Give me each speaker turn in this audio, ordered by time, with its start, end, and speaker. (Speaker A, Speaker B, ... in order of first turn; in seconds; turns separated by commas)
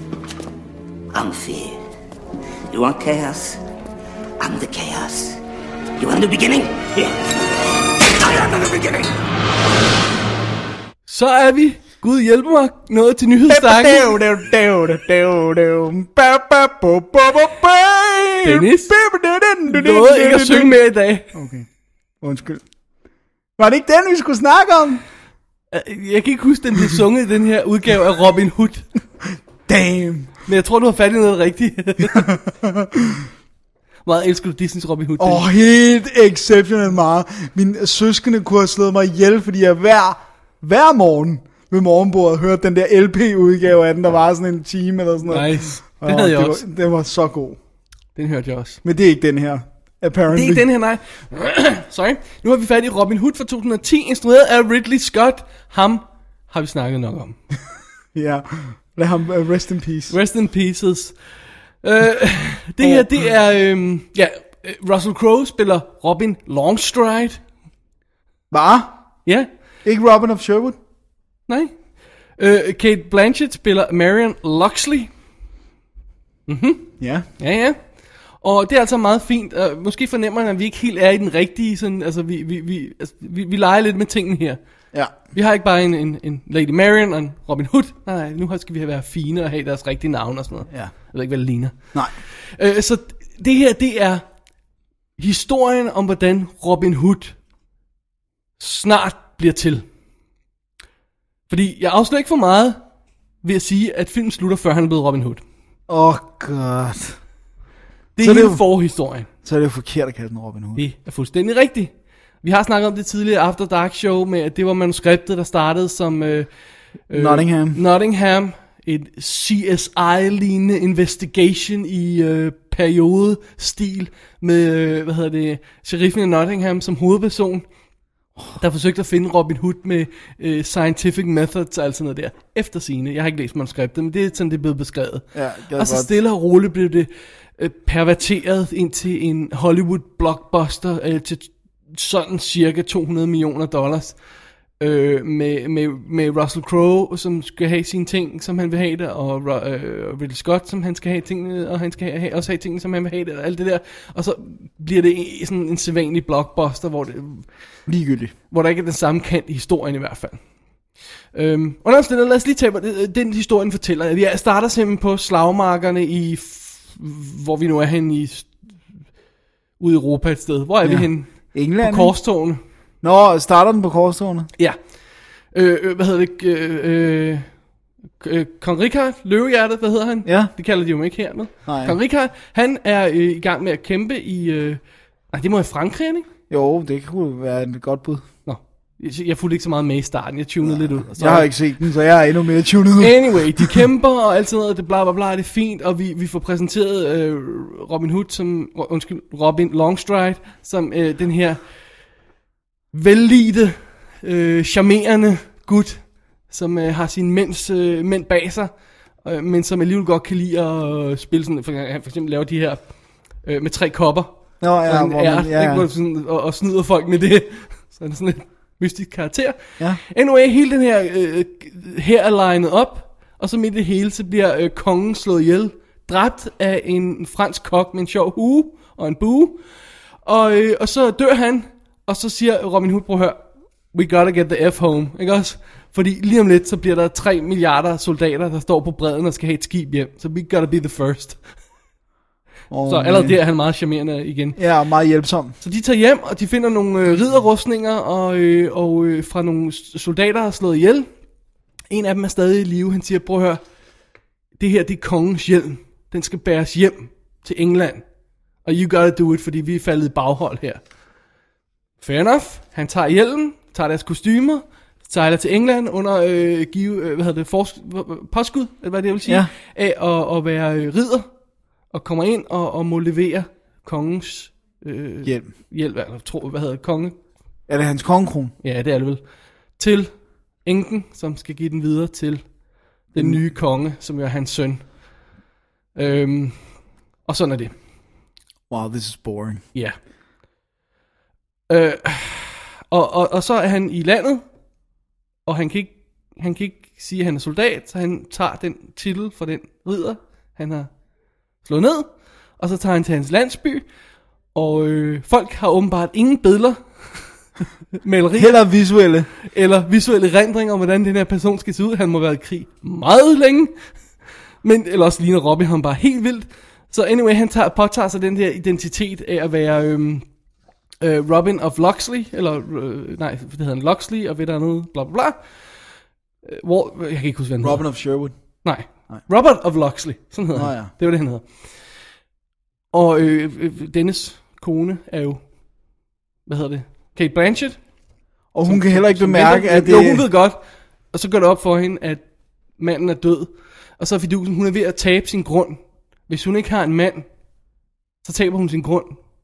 Speaker A: 1.1-1.8, Speaker A: 2.7-3.6, Speaker A: 4.4-5.4, Speaker A: 6.0-7.2, Speaker A: 8.0-9.1, Speaker B: 11.1-14.2, Speaker C: 13.5-20.8, Speaker B: 18.4-19.0, Speaker B: 19.7-21.3, Speaker C: 21.3-21.7, Speaker C: 22.2-22.6, Speaker C: 23.6-25.0, Speaker B: 25.7-28.9, Speaker C: 29.7-30.3, Speaker B: 30.5-32.3, Speaker C: 32.0-33.3, Speaker B: 34.1-35.5, Speaker C: 35.2-47.6, Speaker B: 45.3-46.6, Speaker B: 48.2-48.8, Speaker C: 48.8-50.7, Speaker B: 50.3-57.4, Speaker C: 58.1-60.1, Speaker B: 60.1-61.2, Speaker B: 61.8-67.4, Speaker C: 62.8-63.1, Speaker C: 68.5-68.9, Speaker C: 69.8-70.8, Speaker B: 71.5-71.7, Speaker B: 72.4-75.1, Speaker B: 76.5-76.9, Speaker C: 77.0-77.3, Speaker B: 77.4-77.8, Speaker B: 78.4-84.6, Speaker B: 85.3-91.8, Speaker B: 92.6-94.2, Speaker B: 95.2-97.3, Speaker B: 98.6-99.8, Speaker B: 101.5-102.8, Speaker B: 103.4-105.4, Speaker C: 105.9-107.2, Speaker B: 108.2-109.3, Speaker C: 108.2-108.6, Speaker C: 109.4-110.9, Speaker B: 110.8-111.9, Speaker B: 112.4-116.5, Speaker B: 117.1-127.7, Speaker C: 117.1-117.8, Speaker B: 128.6-135.2, Speaker C: 135.3-136.1, Speaker B: 135.8-144.2, Speaker B: 144.8-157.4, Speaker C: 157.9-158.3, Speaker B: 158.5-160.4, Speaker B: 161.3-168.5, Speaker B: 169.8-172.6, Speaker C: 170.8-172.1, Speaker C: 173.0-174.5, Speaker B: 175.5-177.5, Speaker B: 178.2-184.8, Speaker C: 180.2-180.5, Speaker C: 181.7-182.0, Speaker B: 185.3-186.3, Speaker C: 186.5-188.2, Speaker B: 188.5-191.5, Speaker C: 190.6-193.8, Speaker B: 193.0-201.6, Speaker B: 202.9-208.7, Speaker B: 209.2-212.9, Speaker B: 213.4-214.3, Speaker C: 214.6-215.9, Speaker B: 214.8-229.6, Speaker B: 230.2-233.4, Speaker B: 233.9-241.4, Speaker C: 242.7-243.4, Speaker B: 242.9-244.6, Speaker C: 244.6-245.6, Speaker B: 245.6-251.1, Speaker B: 251.9-253.6, Speaker B: 254.6-258.0, Speaker B: 258.6-260.8, Speaker B: 262.0-271.3, Speaker B: 271.9-277.2, Speaker C: 275.2-275.5, Speaker C: 277.7-278.5, Speaker B: 278.6-279.2, Speaker B: 279.8-280.1, Speaker B: 280.6-282.4, Speaker B: 283.1-284.9, Speaker C: 283.1-283.4, Speaker B: 285.9-286.6, Speaker B: 287.3-287.7, Speaker C: 288.7-289.6, Speaker B: 291.7-294.4, Speaker B: 295.5-300.9, Speaker B: 301.6-303.9, Speaker B: 304.6-306.8, Speaker B: 308.0-308.6, Speaker C: 308.4-309.3, Speaker B: 309.4-313.7, Speaker B: 314.6-320.2, Speaker B: 321.0-325.4, Speaker B: 326.5-327.9, Speaker C: 327.6-328.3, Speaker B: 328.6-331.4, Speaker C: 330.6-330.9, Speaker B: 332.9-335.4, Speaker B: 336.5-337.8, Speaker C: 338.5-340.2, Speaker B: 338.6-340.6, Speaker B: 341.1-342.2, Speaker B: 342.8-347.3, Speaker B: 348.2-349.2